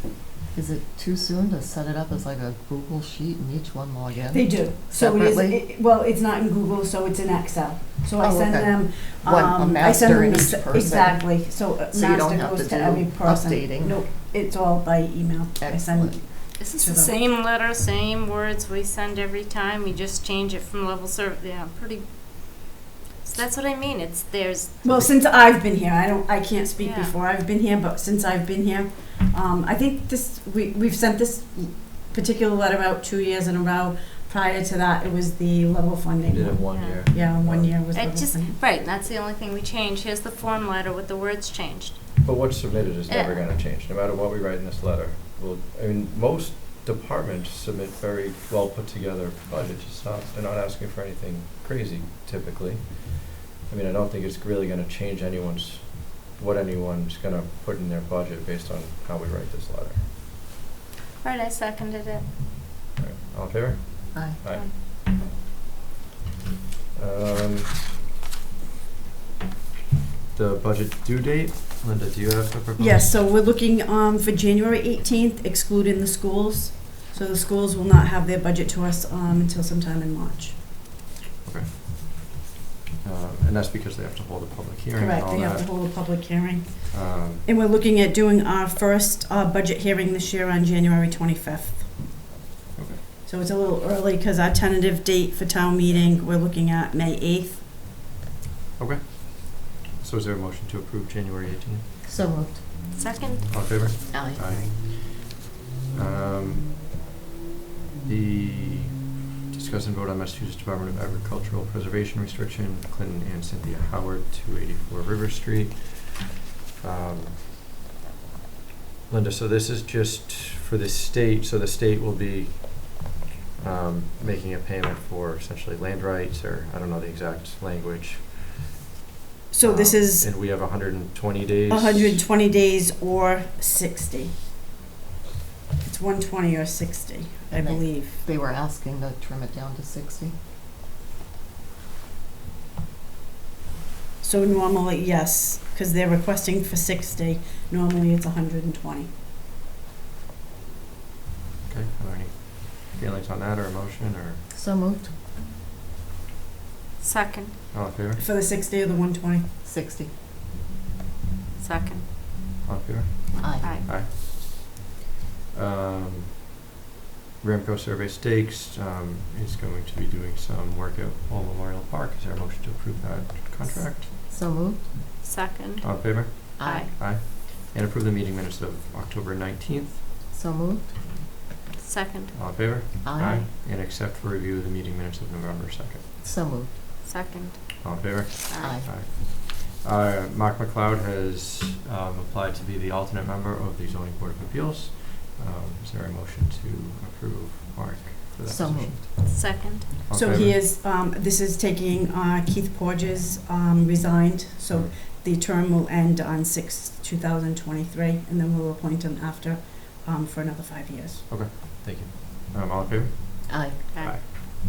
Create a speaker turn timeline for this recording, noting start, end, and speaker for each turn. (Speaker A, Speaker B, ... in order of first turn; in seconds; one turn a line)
Speaker A: 0.5-5.6
Speaker B: 4.3-17.1
Speaker A: 8.2-14.0
Speaker A: 15.6-16.2
Speaker C: 16.6-24.8
Speaker B: 24.8-38.6
Speaker C: 26.8-27.1
Speaker D: 36.2-37.8
Speaker C: 36.7-37.2
Speaker C: 37.9-42.1
Speaker D: 42.2-60.0
Speaker C: 43.1-43.5
Speaker C: 61.2-62.3
Speaker D: 63.0-64.7
Speaker A: 64.1-64.4
Speaker C: 64.5-64.7
Speaker D: 66.9-67.8
Speaker D: 70.3-73.1
Speaker B: 72.8-80.6
Speaker D: 81.4-81.8
Speaker D: 83.0-85.7
Speaker B: 85.0-92.0
Speaker D: 86.9-87.4
Speaker D: 92.7-93.0
Speaker B: 93.2-97.7
Speaker D: 98.8-101.8
Speaker A: 102.0-102.6
Speaker C: 102.9-104.0
Speaker D: 103.5-105.3
Speaker A: 104.1-104.4
Speaker D: 105.9-106.7
Speaker D: 108.0-116.2
Speaker D: 116.8-117.4
Speaker D: 119.1-123.1
Speaker D: 123.6-128.7
Speaker B: 129.5-130.3
Speaker D: 129.6-132.2
Speaker B: 131.7-134.3
Speaker B: 135.8-138.2
Speaker A: 137.5-140.3
Speaker B: 144.2-149.1
Speaker D: 151.7-154.4
Speaker A: 154.5-155.1
Speaker C: 157.0-157.5
Speaker D: 157.7-158.2
Speaker B: 158.2-159.5
Speaker A: 159.6-160.1
Speaker C: 161.6-162.1
Speaker D: 162.6-164.7
Speaker A: 163.4-163.7
Speaker C: 163.6-163.8
Speaker D: 165.5-166.4
Speaker D: 167.4-174.1
Speaker A: 173.7-174.8
Speaker C: 175.2-176.9
Speaker D: 175.8-180.0
Speaker A: 176.6-176.9
Speaker A: 180.3-181.1
Speaker C: 181.8-182.3
Speaker D: 182.3-186.0
Speaker A: 183.0-183.5
Speaker A: 186.2-186.7
Speaker C: 187.0-188.8
Speaker D: 187.8-199.3
Speaker A: 188.6-188.9
Speaker A: 198.4-198.9
Speaker C: 199.2-199.9
Speaker D: 200.1-200.6
Speaker B: 200.1-211.2
Speaker D: 204.7-204.9
Speaker D: 211.3-214.3
Speaker A: 213.5-213.8